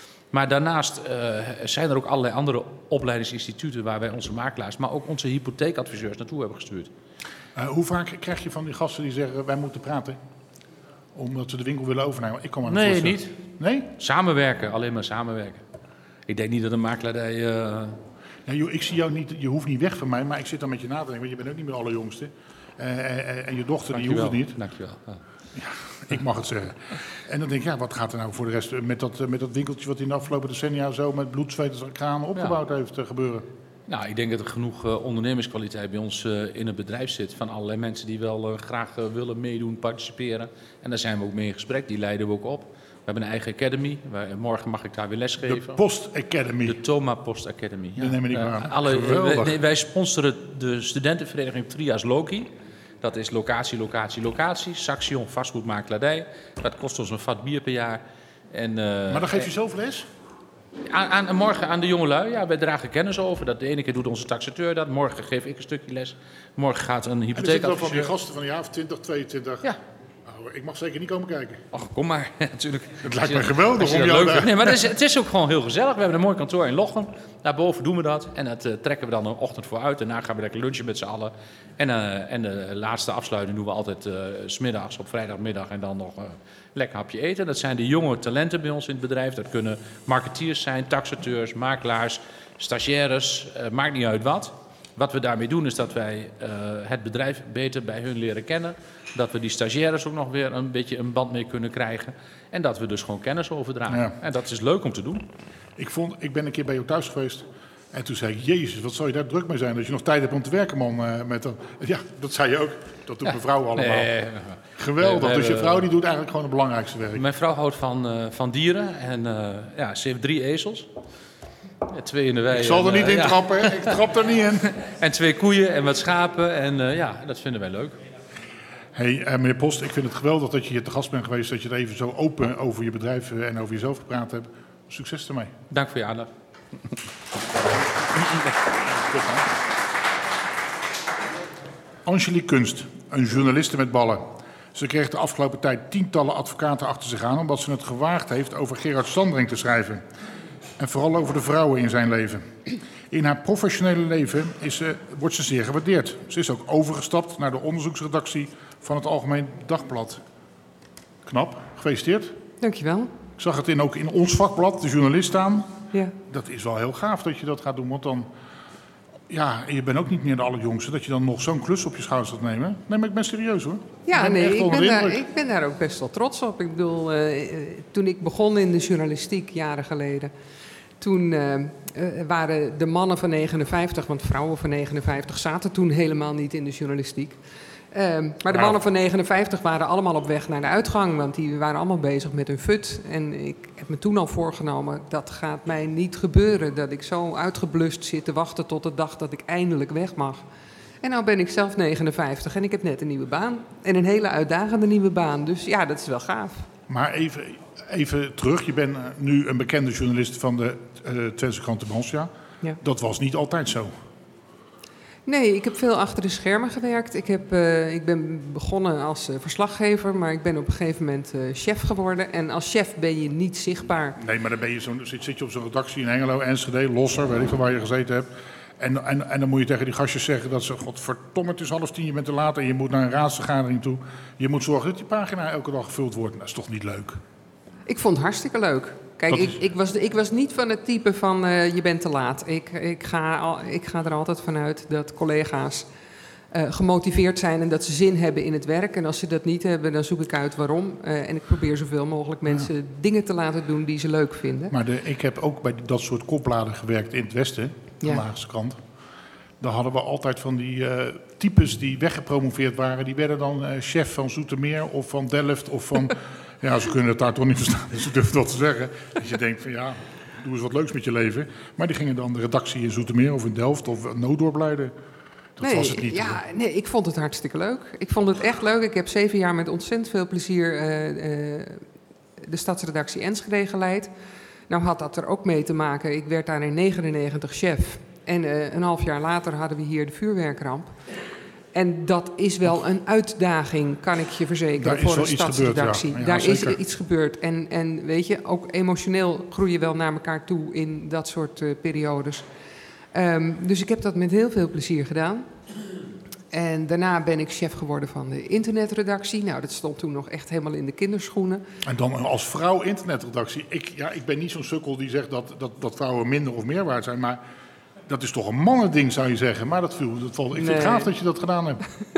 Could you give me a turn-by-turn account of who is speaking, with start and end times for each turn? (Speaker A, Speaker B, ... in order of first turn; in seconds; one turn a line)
Speaker A: 0.3-6.9
Speaker B: 7.6-10.2
Speaker B: 11.2-13.9
Speaker A: 12.7-13.4
Speaker A: 14.0-15.6
Speaker A: 16.3-18.0
Speaker B: 18.5-24.6
Speaker A: 23.9-25.2
Speaker B: 25.6-33.5
Speaker A: 33.9-45.8
Speaker B: 45.4-46.8
Speaker A: 46.7-52.5
Speaker B: 48.0-49.6
Speaker A: 53.0-59.5
Speaker B: 59.1-60.1
Speaker A: 60.9-68.1
Speaker B: 67.4-69.7
Speaker B: 70.3-71.6
Speaker A: 71.7-105.2
Speaker B: 73.0-74.8
Speaker B: 103.9-104.2
Speaker B: 105.8-114.1
Speaker A: 113.3-115.9
Speaker B: 114.8-117.2
Speaker A: 117.2-120.9
Speaker A: 121.9-124.0
Speaker B: 122.5-124.7
Speaker A: 124.8-128.0
Speaker B: 128.9-135.5
Speaker A: 135.7-136.3
Speaker B: 139.1-139.4
Speaker B: 142.1-150.0
Speaker B: 150.8-160.2
Speaker B: 161.3-162.4
Speaker C: 162.6-163.1
Speaker B: 163.4-168.3
Speaker B: 169.3-175.2
Speaker C: 174.1-180.3
Speaker C: 181.0-187.4
Speaker C: 187.9-200.4
Speaker B: 188.5-188.8
Speaker C: 201.0-206.7
Speaker B: 206.9-213.9
Speaker C: 215.3-224.2
Speaker B: 224.2-237.2
Speaker C: 237.9-245.9
Speaker B: 239.3-239.6
Speaker C: 246.5-254.7
Speaker B: 254.7-258.8
Speaker B: 259.6-274.9
Speaker B: 275.6-276.4
Speaker C: 275.6-281.8
Speaker C: 282.4-284.1
Speaker C: 284.7-290.9
Speaker C: 291.7-302.5
Speaker B: 294.8-296.8
Speaker C: 303.1-305.5
Speaker C: 306.5-311.6
Speaker B: 311.8-317.4
Speaker B: 318.1-321.8
Speaker C: 320.6-321.1